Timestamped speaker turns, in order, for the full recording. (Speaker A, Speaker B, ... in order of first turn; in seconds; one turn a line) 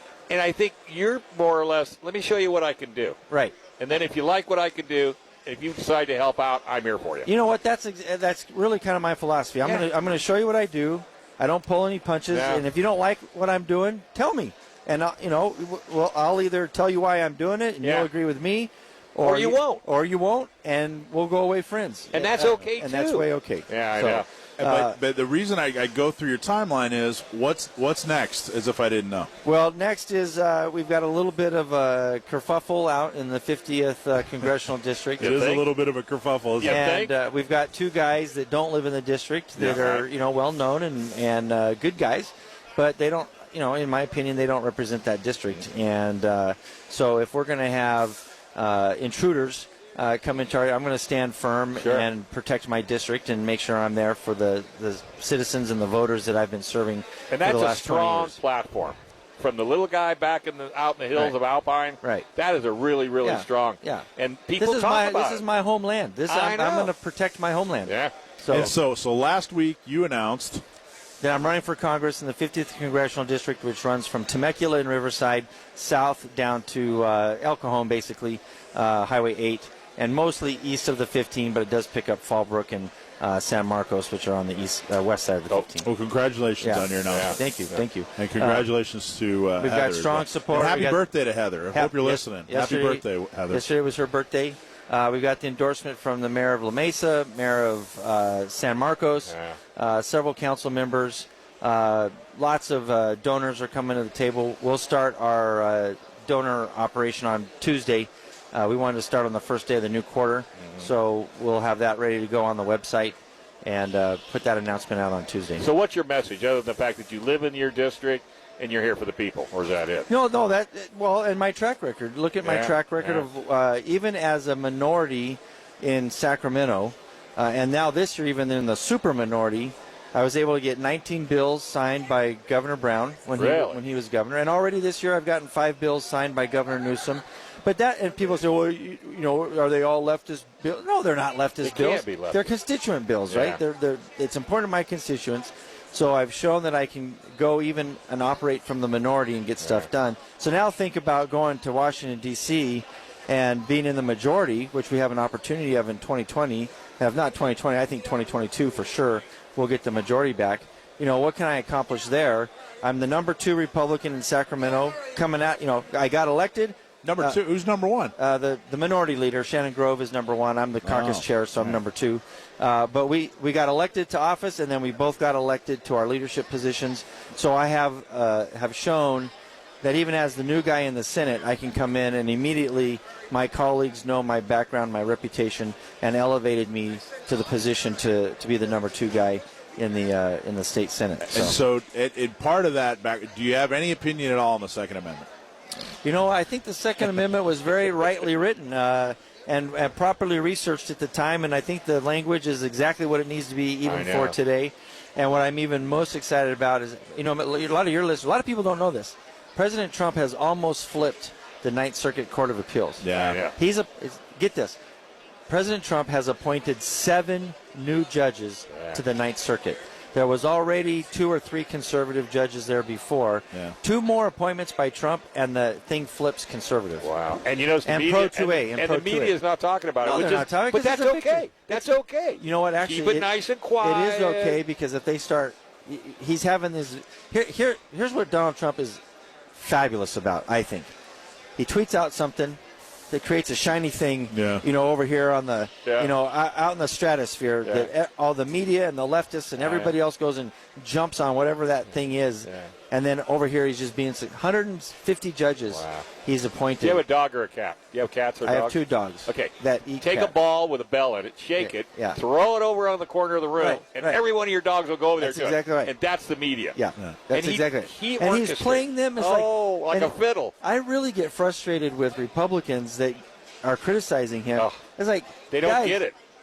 Speaker A: 0.3-3.2
Speaker B: 3.3-3.5
Speaker A: 3.8-7.3
Speaker B: 7.2-25.0
Speaker A: 12.3-12.6
Speaker A: 17.8-18.1
Speaker A: 19.2-19.8
Speaker A: 22.1-24.2
Speaker C: 24.6-29.3
Speaker B: 29.4-35.5
Speaker A: 35.2-35.6
Speaker C: 35.2-36.8
Speaker A: 36.6-37.1
Speaker B: 36.6-58.4
Speaker A: 39.6-40.0
Speaker A: 51.8-52.0
Speaker A: 57.3-65.4
Speaker B: 63.2-68.7
Speaker A: 66.3-66.9
Speaker A: 67.8-68.1
Speaker C: 68.5-70.6
Speaker B: 71.2-85.9
Speaker C: 85.8-87.4
Speaker B: 86.6-88.7
Speaker A: 87.0-87.8
Speaker C: 88.2-93.6
Speaker B: 89.6-91.0
Speaker B: 91.7-115.7
Speaker A: 99.3-99.5
Speaker A: 115.6-120.1
Speaker B: 120.1-167.4
Speaker A: 122.4-123.2
Speaker A: 133.3-133.8
Speaker A: 141.6-142.5
Speaker A: 143.3-143.6
Speaker C: 167.0-168.1
Speaker B: 168.2-191.6
Speaker C: 170.8-171.8
Speaker C: 191.3-195.3
Speaker B: 196.0-214.8
Speaker A: 203.8-204.3
Speaker C: 213.0-213.4
Speaker A: 213.1-213.5
Speaker B: 215.5-227.1
Speaker A: 218.7-219.0
Speaker A: 227.0-234.6
Speaker B: 227.8-229.4
Speaker B: 230.0-239.0
Speaker B: 239.5-240.9
Speaker B: 241.6-257.0
Speaker C: 244.3-244.6
Speaker A: 245.8-246.1
Speaker A: 247.6-247.9
Speaker A: 249.6-249.9
Speaker A: 252.4-252.7
Speaker A: 255.7-256.1
Speaker A: 256.8-266.8
Speaker B: 258.4-260.3
Speaker B: 261.6-262.2
Speaker B: 263.6-264.2
Speaker B: 265.2-265.9
Speaker B: 266.7-276.0
Speaker A: 267.3-270.5
Speaker A: 275.5-276.1